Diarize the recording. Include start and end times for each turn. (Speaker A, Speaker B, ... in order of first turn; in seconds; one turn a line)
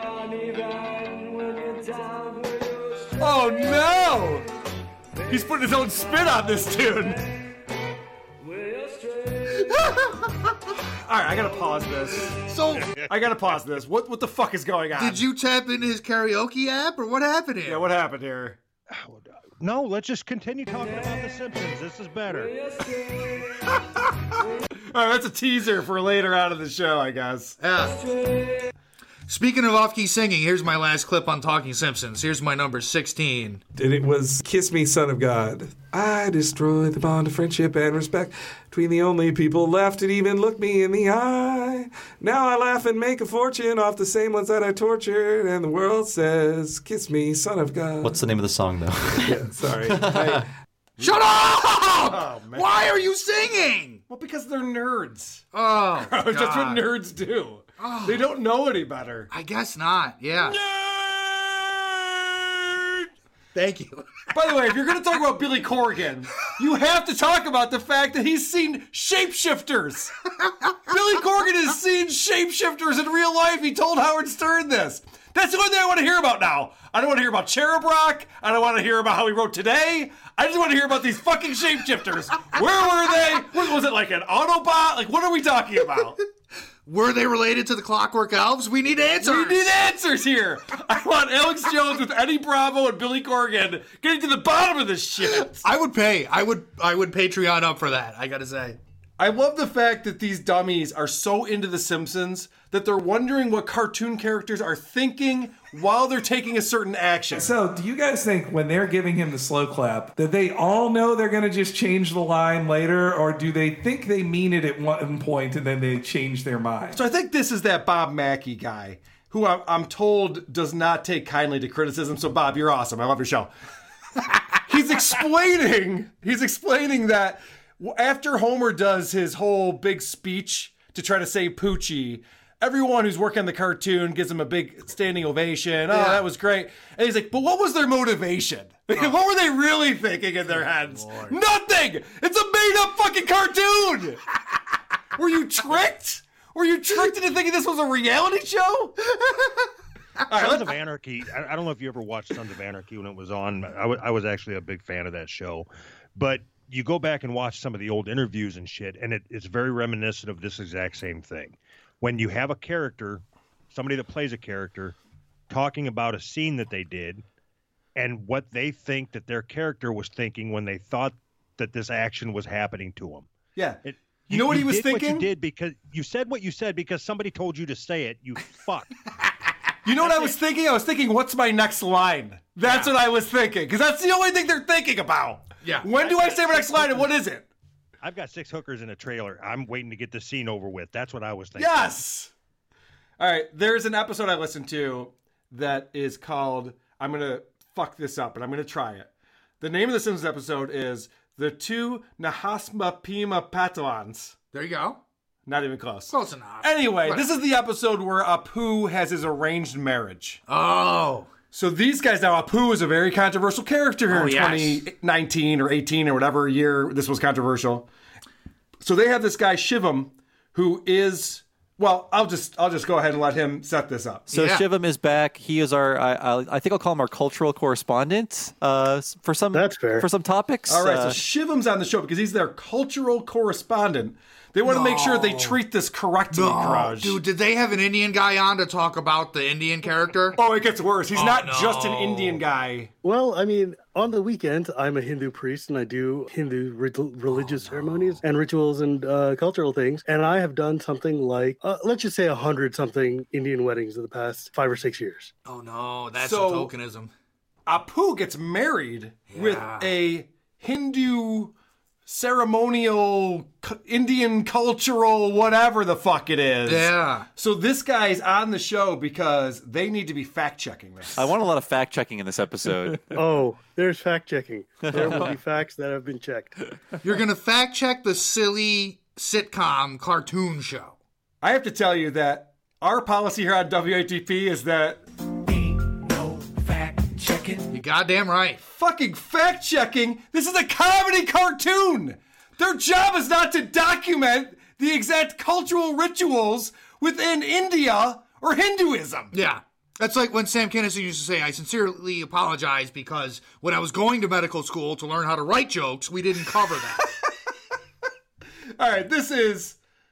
Speaker A: 3.2-4.5
Speaker A: 5.3-7.2
Speaker A: 9.6-10.3
Speaker A: 11.0-12.4
Speaker B: 12.5-12.9
Speaker A: 13.1-15.2
Speaker B: 14.9-17.9
Speaker A: 17.6-18.6
Speaker C: 18.9-22.6
Speaker A: 24.9-27.6
Speaker B: 27.6-28.0
Speaker B: 29.3-33.6
Speaker D: 33.7-48.2
Speaker E: 48.0-50.5
Speaker D: 49.2-50.5
Speaker B: 51.0-54.0
Speaker A: 52.1-52.7
Speaker A: 54.1-55.5
Speaker B: 55.5-56.8
Speaker A: 56.0-59.3
Speaker B: 57.8-58.2
Speaker B: 59.3-60.6
Speaker A: 60.5-63.0
Speaker B: 63.5-64.3
Speaker A: 64.3-70.1
Speaker A: 70.9-86.2
Speaker B: 86.8-89.7
Speaker A: 89.2-95.6
Speaker B: 95.3-98.8
Speaker A: 99.2-107.5
Speaker D: 107.3-117.0
Speaker A: 116.9-123.5
Speaker A: 124.7-144.2
Speaker B: 135.9-136.2
Speaker B: 140.6-141.3
Speaker A: 145.2-149.0
Speaker A: 150.3-150.7
Speaker C: 150.3-164.9
Speaker C: 165.5-167.2
Speaker C: 167.9-173.3
Speaker C: 173.8-178.9
Speaker A: 174.3-175.2
Speaker A: 179.8-187.5
Speaker B: 180.0-180.3
Speaker B: 182.6-182.9
Speaker B: 185.6-187.0
Speaker C: 188.0-192.0
Speaker A: 191.6-192.3
Speaker A: 193.2-199.1
Speaker A: 199.6-204.3
Speaker B: 204.5-205.0
Speaker A: 205.4-210.4
Speaker B: 206.1-207.3
Speaker B: 210.5-211.3
Speaker A: 211.5-217.9
Speaker B: 214.1-214.8
Speaker A: 218.8-224.3
Speaker E: 224.3-231.2
Speaker B: 224.3-224.6
Speaker F: 229.5-230.1
Speaker A: 230.7-237.2
Speaker B: 234.6-235.6
Speaker B: 236.3-240.3
Speaker A: 240.3-242.9
Speaker B: 241.1-242.4
Speaker F: 243.0-255.3
Speaker B: 247.3-248.2
Speaker B: 255.4-257.1
Speaker A: 256.2-256.7
Speaker A: 257.6-261.5
Speaker B: 259.3-259.9
Speaker A: 262.1-271.2
Speaker B: 266.6-267.3
Speaker E: 271.1-273.0
Speaker F: 273.1-276.6
Speaker E: 274.9-275.3
Speaker B: 277.0-281.0
Speaker A: 281.4-285.0
Speaker B: 287.7-288.6
Speaker A: 288.6-299.3
Speaker B: 299.3-307.1
Speaker A: 308.8-309.8